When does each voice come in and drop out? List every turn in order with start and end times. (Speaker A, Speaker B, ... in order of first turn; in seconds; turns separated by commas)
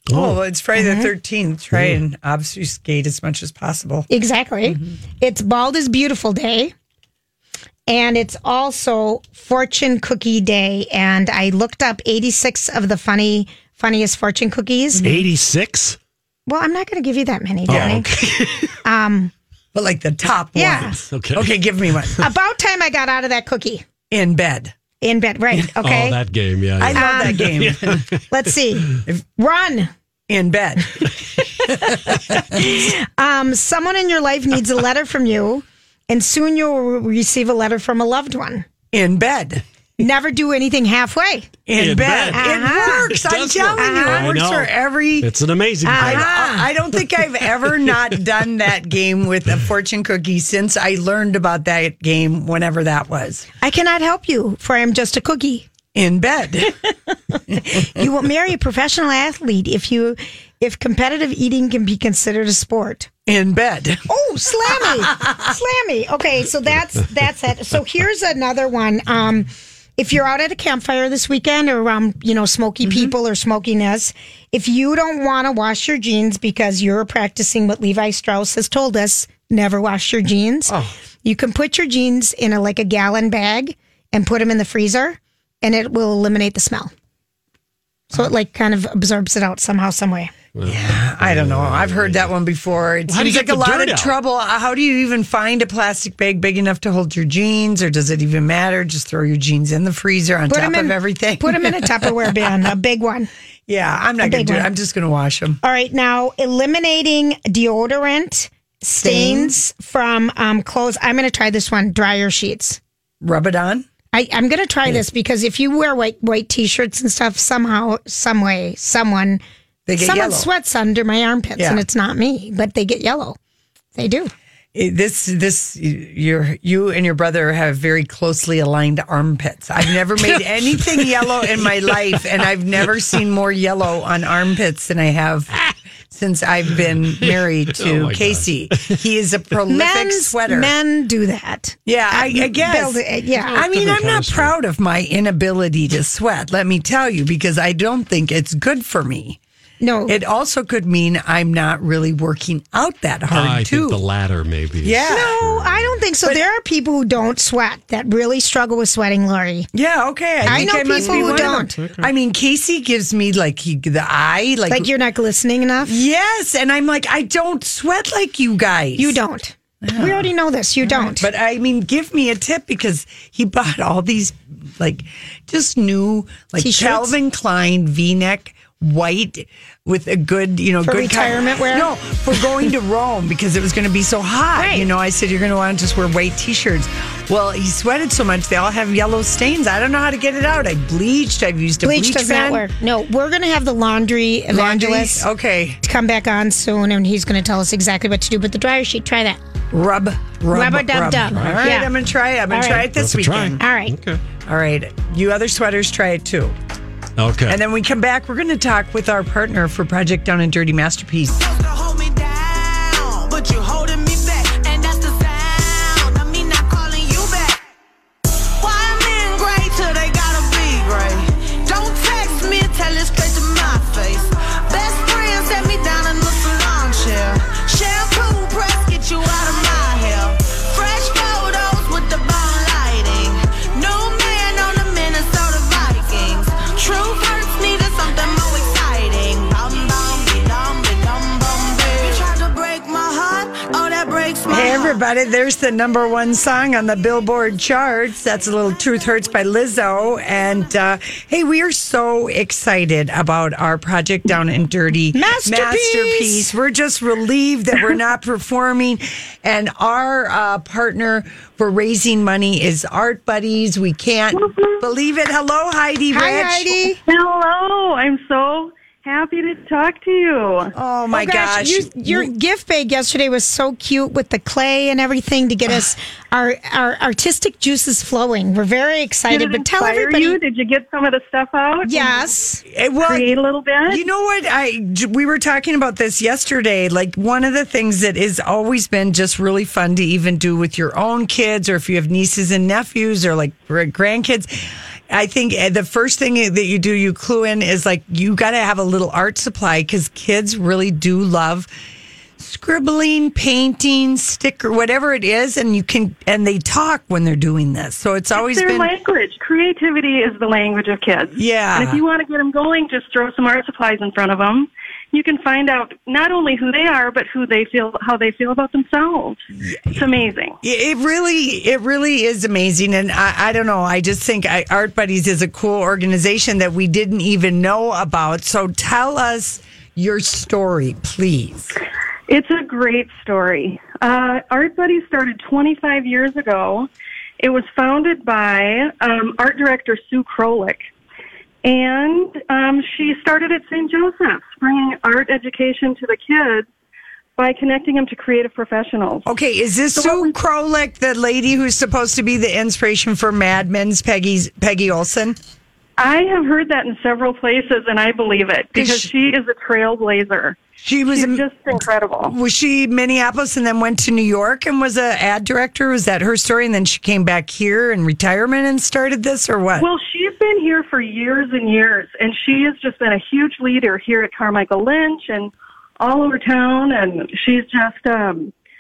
Speaker A: 0.1-0.4, Speaker B: 0.1-4.1, Speaker C: 0.8-1.1, Speaker C: 4.1-6.7, Speaker C: 7.9-15.1, Speaker A: 15.0-16.0, Speaker C: 16.5-18.1, Speaker A: 17.7-18.7, Speaker B: 17.7-18.0, Speaker C: 18.8-19.3, Speaker B: 19.7-22.2, Speaker C: 20.6-21.0, Speaker A: 21.0-22.1, Speaker C: 22.2-23.9, Speaker B: 24.1-24.7, Speaker C: 25.0-26.2, Speaker A: 25.6-28.5, Speaker B: 26.8-28.0, Speaker C: 26.9-27.6, Speaker C: 28.3-29.9, Speaker B: 30.3-31.1, Speaker B: 31.9-32.3, Speaker C: 32.3-38.6, Speaker B: 38.9-39.6, Speaker C: 40.0-41.5, Speaker B: 41.7-45.3, Speaker A: 41.8-46.5, Speaker C: 42.3-43.1, Speaker C: 43.8-44.4, Speaker C: 45.9-46.7, Speaker B: 45.9-53.5, Speaker A: 47.7-48.0, Speaker C: 53.6-55.7, Speaker B: 55.9-56.9, Speaker B: 57.5-57.8, Speaker C: 57.6-63.1, Speaker B: 63.3-64.0, Speaker C: 64.1-86.9, Speaker B: 64.8-65.2, Speaker C: 88.1-90.3, Speaker A: 90.5-92.3, Speaker B: 90.7-102.2, Speaker A: 93.1-94.2, Speaker C: 100.5-103.3, Speaker B: 103.7-105.6, Speaker C: 104.2-104.7, Speaker C: 105.6-112.8, Speaker B: 109.0-109.5, Speaker B: 113.2-113.9, Speaker C: 114.1-119.4, Speaker B: 119.9-120.5, Speaker C: 120.0-123.4, Speaker B: 121.6-121.8, Speaker C: 124.0-124.3, Speaker B: 124.7-135.6, Speaker B: 136.1-140.7, Speaker A: 137.2-139.0, Speaker C: 139.7-143.6, Speaker B: 141.9-143.0, Speaker A: 143.4-144.5, Speaker B: 143.5-149.4, Speaker C: 149.8-150.2, Speaker B: 150.1-154.0, Speaker A: 153.3-156.0, Speaker B: 154.8-155.4, Speaker C: 155.1-159.7, Speaker B: 159.7-164.9, Speaker A: 160.4-162.1, Speaker C: 160.4-161.8, Speaker C: 164.7-166.0, Speaker B: 165.8-169.2, Speaker C: 169.0-171.3, Speaker B: 169.8-170.3, Speaker B: 170.8-192.7, Speaker C: 176.6-177.2, Speaker C: 180.8-181.9, Speaker C: 184.6-184.9, Speaker C: 191.8-195.3, Speaker B: 194.5-195.8, Speaker C: 195.8-199.4, Speaker B: 199.7-203.6, Speaker C: 200.5-201.9, Speaker A: 201.4-201.7, Speaker C: 202.5-202.9, Speaker A: 202.9-204.2, Speaker C: 203.6-203.9, Speaker B: 204.4-206.6, Speaker A: 207.2-207.6, Speaker B: 207.5-211.4, Speaker D: 211.3-217.6, Speaker D: 218.6-245.0, Speaker B: 244.5-266.8, Speaker C: 255.1-256.5, Speaker E: 264.3-264.9, Speaker C: 266.1-267.0, Speaker E: 267.1-270.7, Speaker B: 270.7-272.3, Speaker C: 271.1-280.4, Speaker E: 279.3-282.3, Speaker C: 281.8-282.6, Speaker B: 282.7-283.3, Speaker E: 283.0-284.1, Speaker B: 283.9-301.7, Speaker B: 302.4-308.9, Speaker E: 308.4-320.6, Speaker B: 311.4-312.0, Speaker B: 320.6-331.8, Speaker E: 332.3-336.9, Speaker E: 337.4-340.9, Speaker E: 341.6-346.7, Speaker E: 347.4-349.3, Speaker B: 349.3-355.4, Speaker E: 349.9-350.3, Speaker E: 356.0-360.6, Speaker B: 358.8-359.1, Speaker B: 360.8-361.5, Speaker E: 361.1-362.4, Speaker B: 362.2-369.9, Speaker E: 369.8-378.5